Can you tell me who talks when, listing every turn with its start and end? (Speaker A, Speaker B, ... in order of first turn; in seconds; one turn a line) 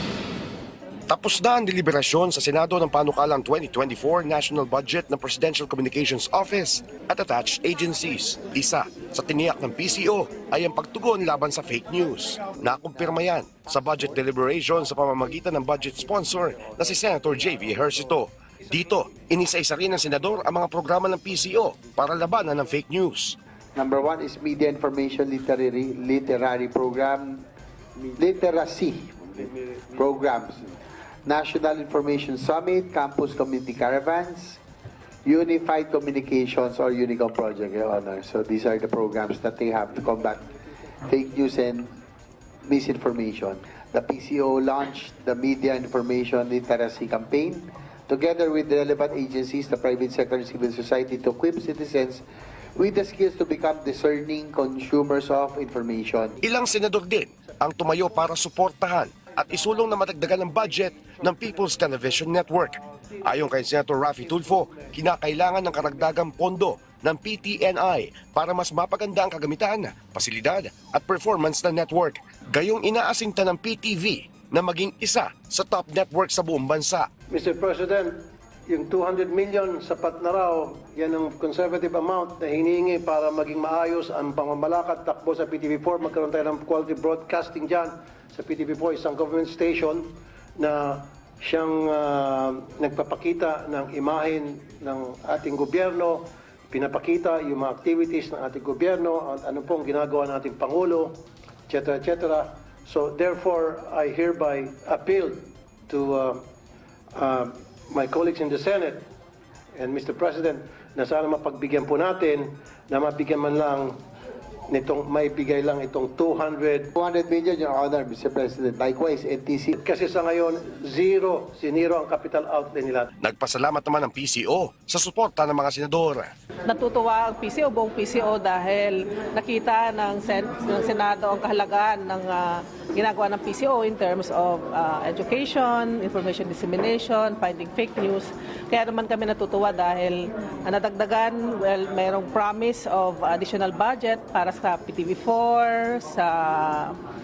Speaker A: 1.1-23.4
Speaker B: 23.8-27.4
Speaker B: 28.2-34.6
Speaker B: 35.2-40.5
Speaker B: 41.0-42.0
Speaker B: 42.7-52.2
Speaker B: 52.8-56.4
Speaker A: 56.4-77.1
Speaker C: 77.3-106.4
Speaker C: 107.2-109.1
Speaker C: 109.8-114.0
Speaker C: 114.7-116.9
Speaker B: 117.0-119.8
Speaker C: 119.8-123.1
Speaker A: 123.2-126.3
Speaker D: 126.7-147.0